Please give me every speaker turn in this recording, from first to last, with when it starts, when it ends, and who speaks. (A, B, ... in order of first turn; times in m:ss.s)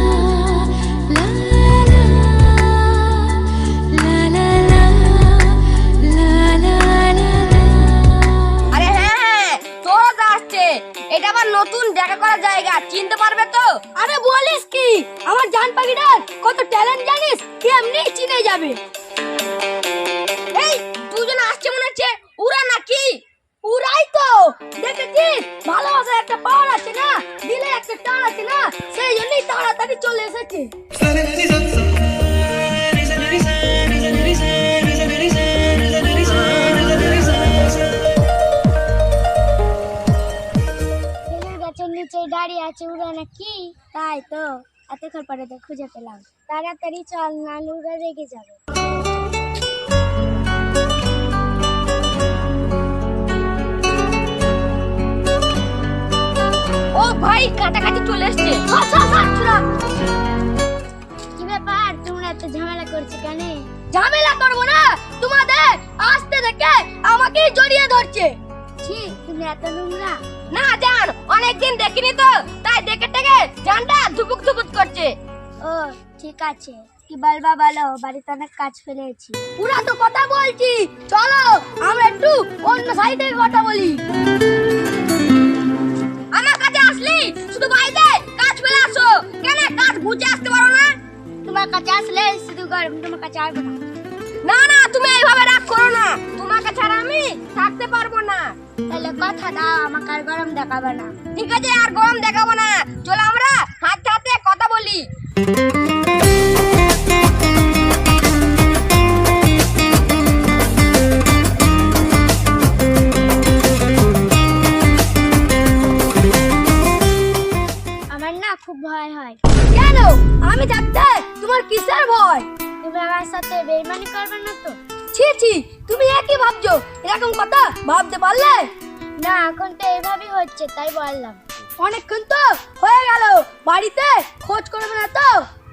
0:08.7-0:13.8 A
0:13.9-0:18.8 B
0:20.5-0:23.2 A
0:23.6-0:30.7 B
0:41.3-0:48.6 C
0:56.9-0:58.6 A
0:58.7-0:59.6 B
1:01.4-1:03.7 C
1:03.9-1:08.4 B
1:08.8-1:10.2 C
1:10.5-1:15.2 A
1:15.6-1:19.4 C
1:19.6-1:24.0 B
1:26.3-1:31.0 A
1:31.4-1:33.8 C
1:34.4-1:38.6 A
1:38.9-1:41.2 C
1:41.3-1:45.1 A
1:58.1-1:59.4 C
1:59.7-2:02.5 B
2:02.8-2:04.8 C
2:05.1-2:08.7 B
2:09.2-2:11.4 C
2:11.8-2:15.5 B